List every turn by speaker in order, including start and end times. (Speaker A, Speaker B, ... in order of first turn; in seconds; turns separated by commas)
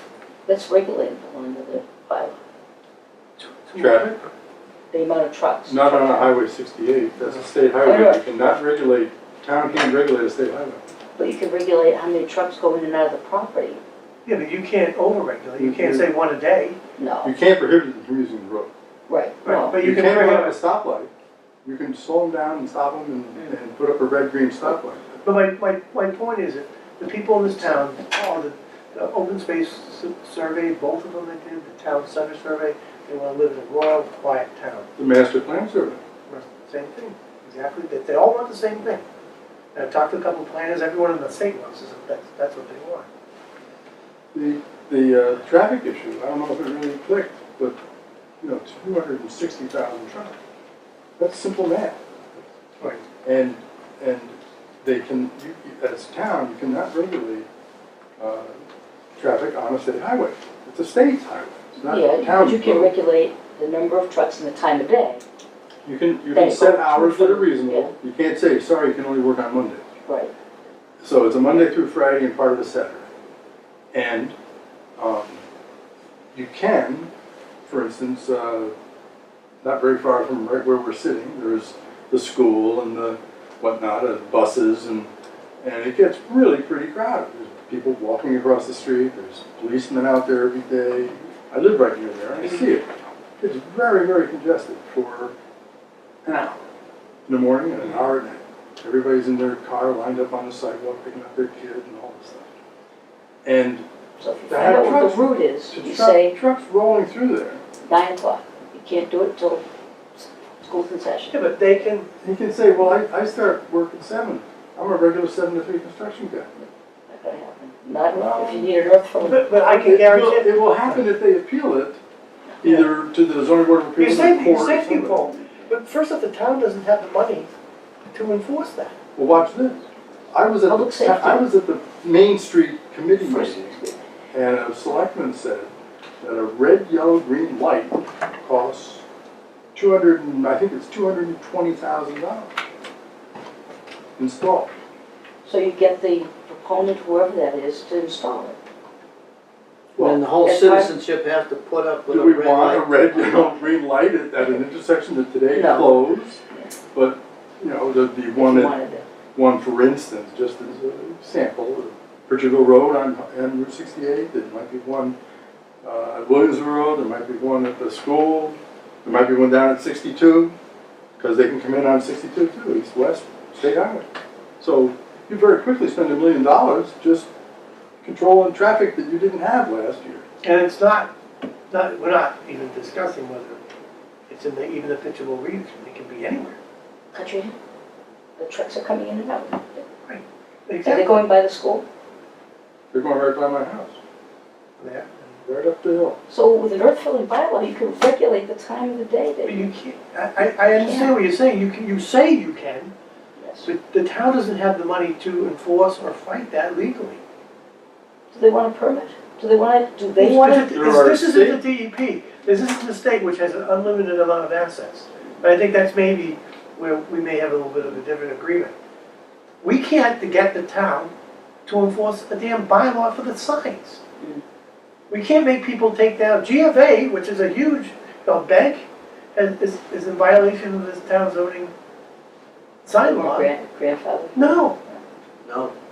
Speaker A: 0.5-2.4, Speaker B: 3.4-4.2, Speaker C: 3.8-4.1, Speaker A: 4.9-6.3, Speaker C: 5.7-10.8, Speaker A: 7.8-8.2, Speaker A: 11.2-13.8, Speaker B: 14.2-16.8, Speaker C: 15.6-16.1, Speaker A: 17.0-17.3, Speaker C: 17.2-18.7, Speaker A: 19.1-19.8, Speaker B: 19.4-20.6, Speaker C: 19.8-21.1, Speaker C: 21.6-25.1, Speaker B: 25.2-34.9, Speaker C: 35.0-36.0, Speaker B: 36.3-39.0, Speaker B: 39.7-43.1, Speaker C: 44.3-47.8, Speaker C: 48.4-50.4, Speaker C: 51.2-52.5, Speaker C: 53.2-57.5, Speaker C: 58.2-58.6, Speaker C: 59.2-62.9, Speaker A: 61.8-65.2, Speaker C: 65.8-69.8, Speaker A: 66.3-67.9, Speaker A: 70.1-70.3, Speaker C: 71.0-73.1, Speaker C: 73.9-74.3, Speaker C: 75.0-75.4, Speaker C: 76.3-77.1, Speaker C: 77.7-78.7, Speaker C: 79.6-85.1, Speaker C: 85.6-95.3, Speaker C: 96.2-96.7, Speaker C: 97.3-102.5, Speaker C: 103.5-103.9, Speaker A: 104.2-106.4, Speaker C: 104.5-107.6, Speaker A: 107.8-111.4, Speaker B: 111.3-112.1, Speaker C: 112.2-116.5, Speaker A: 116.6-119.5, Speaker B: 118.1-118.7, Speaker B: 119.2-121.0, Speaker C: 119.6-122.0, Speaker C: 122.6-125.3, Speaker B: 124.0-127.5, Speaker B: 128.1-129.0, Speaker C: 129.2-129.8, Speaker C: 130.3-133.8, Speaker A: 130.7-131.5, Speaker A: 133.2-134.0, Speaker C: 134.3-135.7, Speaker C: 136.2-139.0, Speaker C: 139.7-142.5, Speaker C: 144.2-144.7, Speaker A: 145.4-148.6, Speaker C: 150.0-150.2, Speaker D: 150.0-153.6, Speaker A: 150.4-150.9, Speaker C: 152.1-156.4, Speaker A: 155.5-156.7, Speaker C: 156.9-158.8, Speaker A: 158.3-159.1, Speaker C: 159.3-165.2, Speaker C: 165.8-170.5, Speaker C: 171.2-174.1, Speaker C: 174.6-177.3, Speaker C: 178.0-180.2, Speaker B: 180.4-181.1, Speaker B: 181.7-183.7, Speaker B: 184.3-186.6, Speaker A: 187.1-187.6, Speaker A: 188.4-189.9, Speaker B: 190.1-191.2, Speaker A: 190.8-191.8, Speaker C: 192.9-194.0, Speaker B: 194.8-195.4, Speaker C: 195.4-196.2, Speaker A: 196.3-199.7, Speaker B: 199.5-202.9, Speaker A: 200.4-201.2, Speaker A: 203.4-203.7, Speaker B: 203.6-207.2, Speaker A: 208.3-210.7, Speaker B: 210.2-218.8, Speaker C: 210.5-211.6, Speaker B: 219.6-221.1, Speaker B: 221.7-224.0, Speaker B: 225.1-231.7, Speaker B: 232.8-233.5, Speaker A: 233.0-235.0, Speaker B: 234.4-234.8, Speaker D: 235.4-235.7